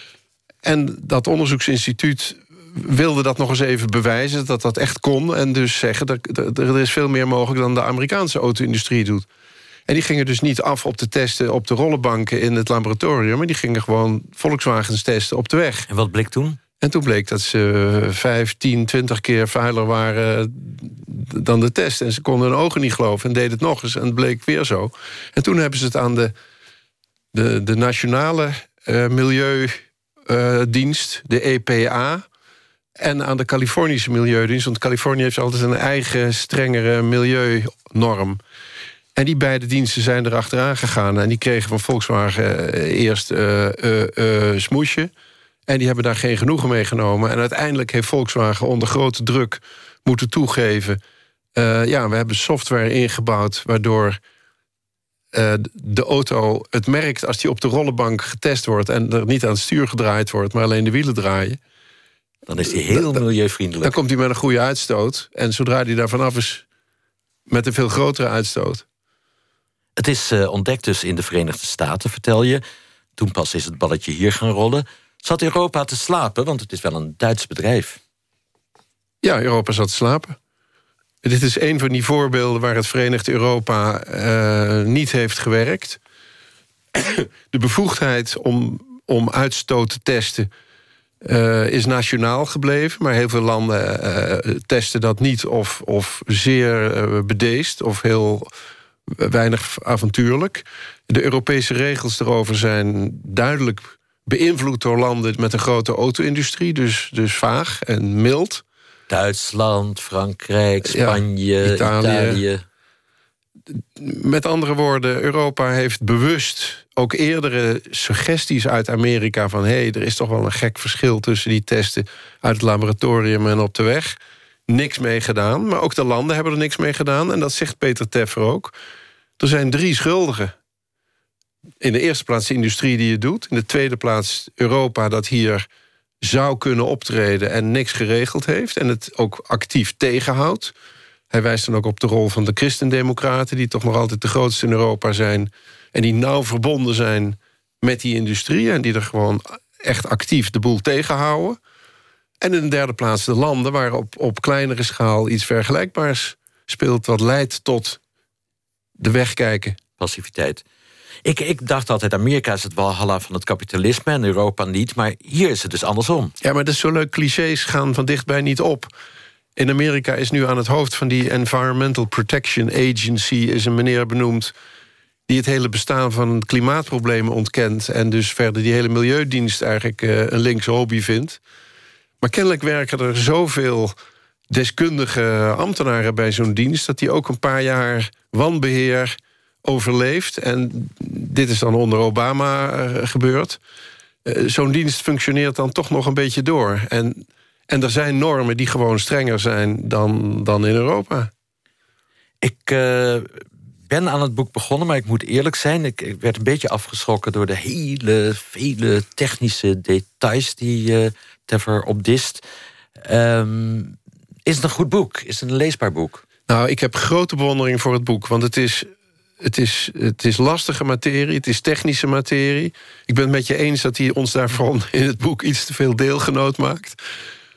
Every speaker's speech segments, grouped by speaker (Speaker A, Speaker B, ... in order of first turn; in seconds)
Speaker A: 0.6-9.2, 9.9-15.9, 16.8-26.3, 27.3-29.8, 30.3-32.2, 33.0-38.4, 39.2-45.1, 45.7-51.0, 51.6-54.2, 55.3-61.6, 62.7-63.2, 63.8-66.6, 67.5-68.8, 79.2-80.3, 81.2-86.0, 86.9-90.5, 91.2-98.5, 99.1-108.6, 110.8-112.4, 113.7-124.2, 124.7-128.7, 129.4-130.5, 131.8-135.6, 136.2-140.7, 141.3-151.6, 152.4-158.0, 159.0-159.8, 166.4-168.9, 169.6-174.5, 175.3-181.4, 182.2-183.9, 184.5-193.6, 194.2-201.3, 216.5-218.9, 219.4-227.0
Speaker B: 15.9-16.6, 62.5-64.0, 70.0-72.6, 73.2-78.0, 109.1-112.6, 160.0-160.6, 161.2-166.3, 202.4-212.4, 213.0-216.2